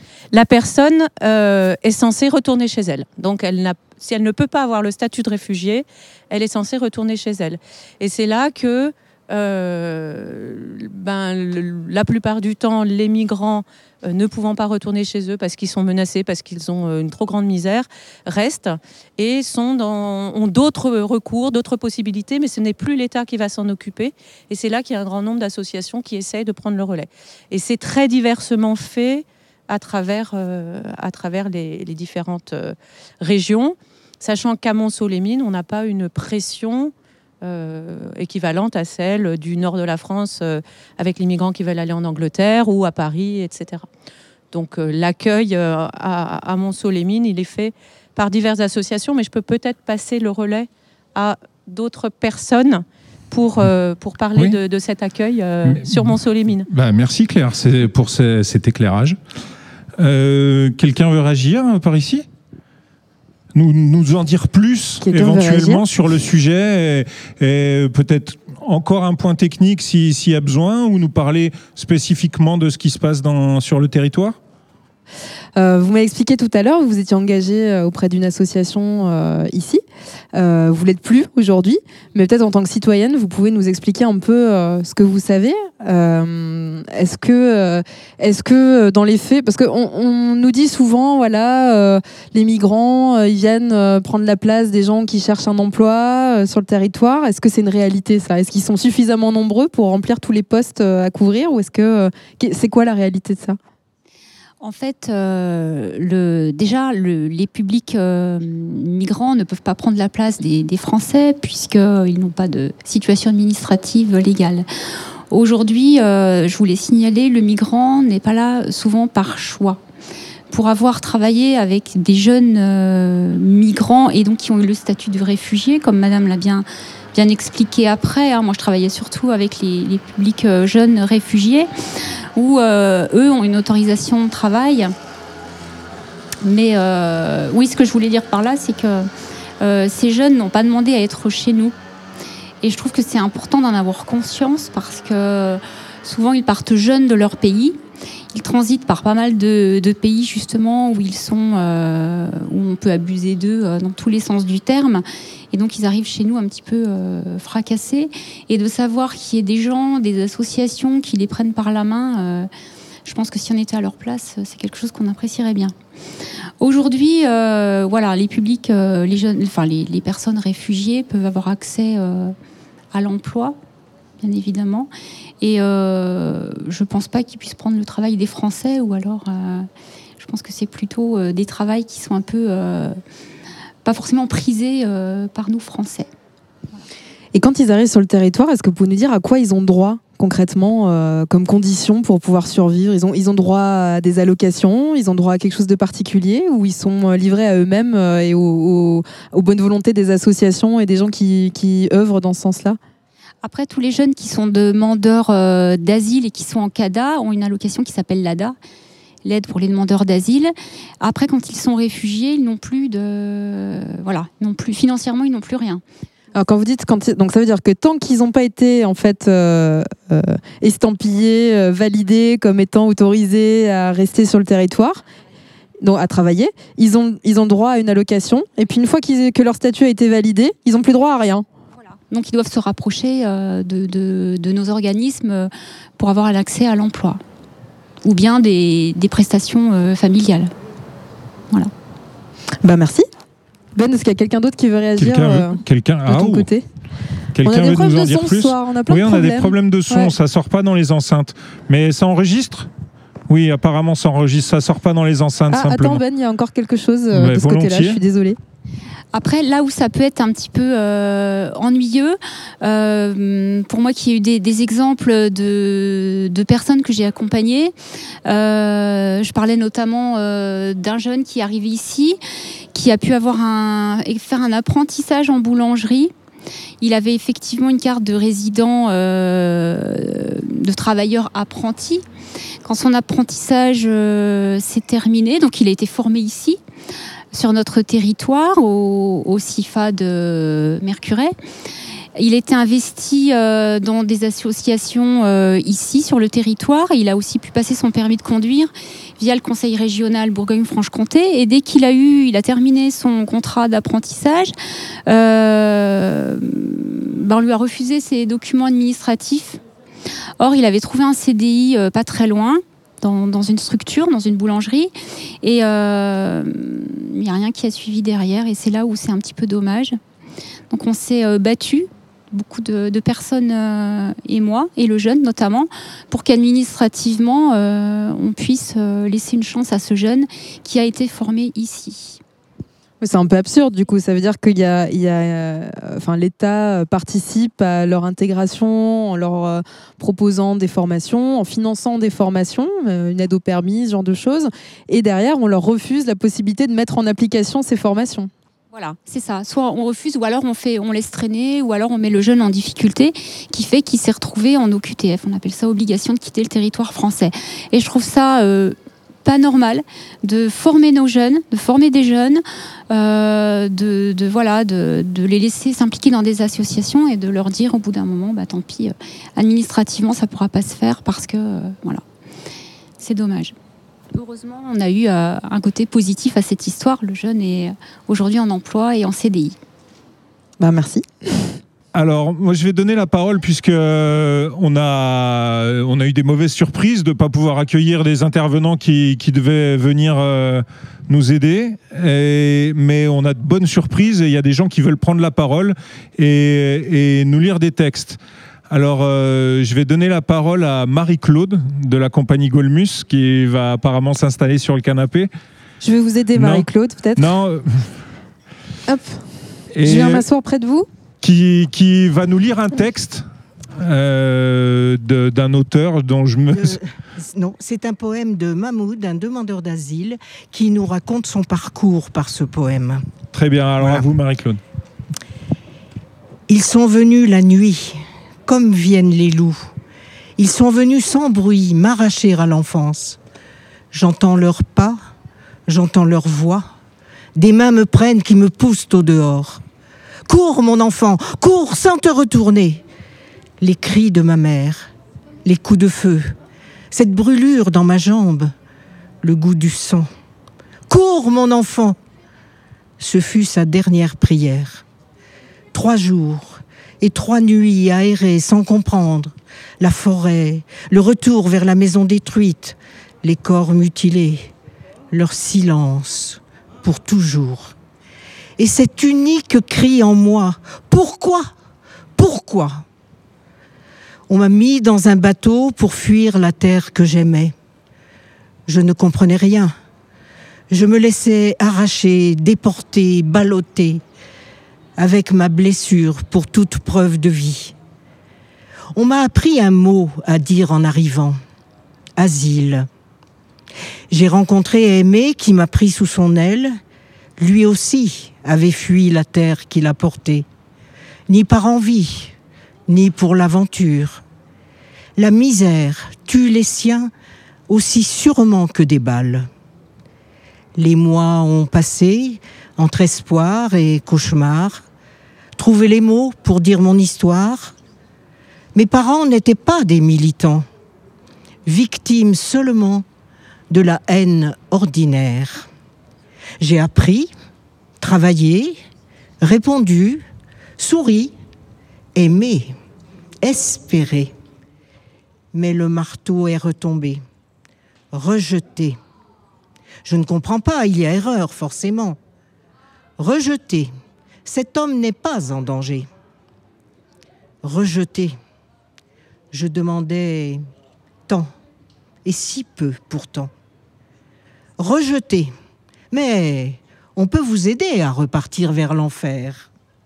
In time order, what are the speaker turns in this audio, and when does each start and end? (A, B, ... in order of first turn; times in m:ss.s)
0:00.3-0:43.9 A
0:44.5-0:56.7 A
0:55.6-0:56.2 B
0:56.7-0:59.2 B
1:00.0-1:02.2 B
1:03.5-1:14.4 B
1:05.0-1:05.8 C
1:15.6-1:19.8 C
1:20.3-1:43.6 C
1:44.6-1:54.7 D
1:55.3-1:59.8 D
2:00.5-2:11.7 D
2:12.3-2:14.9 D
2:16.4-2:19.1 D
2:19.6-2:21.7 D
2:22.6-2:27.8 D
2:28.3-2:42.5 D
2:43.0-2:45.7 D
2:46.6-2:52.3 D
2:52.9-2:53.6 D
2:54.2-2:59.7 D
3:00.2-3:03.0 D
3:03.8-3:06.1 D
3:07.3-3:22.8 C
3:23.4-3:28.6 D
3:29.2-3:35.8 D
3:36.3-3:45.0 C
3:45.8-3:51.4 C
3:52.1-3:57.2 D
3:58.0-4:00.5 D
4:02.6-4:03.1 C
4:03.7-4:06.6 C
4:05.0-4:06.5 B
4:07.4-4:12.7 B
4:07.4-4:10.1 C
4:13.3-4:16.0 B
4:15.5-4:18.4 C
4:17.1-4:18.0 B
4:19.1-4:27.7 D
4:28.2-4:32.2 D
4:32.7-4:36.1 D
4:36.8-4:42.0 D
4:42.6-4:46.6 D
4:47.3-4:51.3 D
4:52.2-5:04.5 D
5:05.0-5:09.6 D
5:10.4-5:20.0 D
5:20.7-5:32.2 D
5:33.0-5:48.3 C
5:48.7-6:12.0 D
6:13.0-6:13.5 D
6:14.1-6:19.6 D
6:20.6-6:21.5 C
6:21.9-6:45.3 B
6:45.8-6:47.3 C
6:46.4-6:47.9 B
6:48.9-6:49.2 C
6:49.8-6:50.2 B
6:49.8-6:50.9 C
6:51.2-6:53.2 B
6:53.8-6:56.8 B
6:56.5-7:03.0 E
7:03.3-7:04.6 B
7:03.8-7:04.1 E
7:06.5-7:09.7 E
7:10.4-7:13.2 E
7:13.9-7:15.0 E
7:15.7-7:16.7 E
7:17.3-7:19.6 E
7:20.3-7:22.8 E
7:23.6-7:24.9 E
7:25.4-7:26.3 E
7:26.9-7:28.5 E
7:29.2-7:30.1 E
7:30.9-7:32.0 E
7:33.0-7:34.8 E
7:35.7-7:44.5 E
7:45.1-7:47.7 E
7:48.6-7:51.5 E
7:52.2-7:52.8 E
7:54.3-7:57.5 E
7:58.7-7:59.7 E
8:00.7-8:04.0 E
8:05.0-8:07.7 E
8:08.9-8:11.4 E
8:12.2-8:12.9 E
8:14.1-8:16.8 E
8:17.4-8:20.4 E
8:21.3-8:22.3 E
8:22.9-8:24.2 E
8:25.2-8:27.1 E
8:27.7-8:29.5 E
8:30.7-8:34.8 E
8:35.6-8:37.8 E
8:38.7-8:40.7 E
8:41.6-8:43.0 E
8:43.7-8:45.7 E
8:46.6-8:47.3 E
8:48.0-8:48.8 E
8:49.4-8:50.2 E
8:50.8-8:51.3 E
8:52.1-8:52.7 E
8:53.4-8:54.3 E
8:55.5-8:57.2 E
8:58.1-8:59.0 E
9:00.0-9:02.2 E
9:03.2-9:03.9 E
9:04.4-9:06.1 E
9:07.6-9:08.4 E
9:09.5-9:10.6 E
9:12.2-9:13.5 E
9:14.8-9:15.5 E
9:16.1-9:19.7 E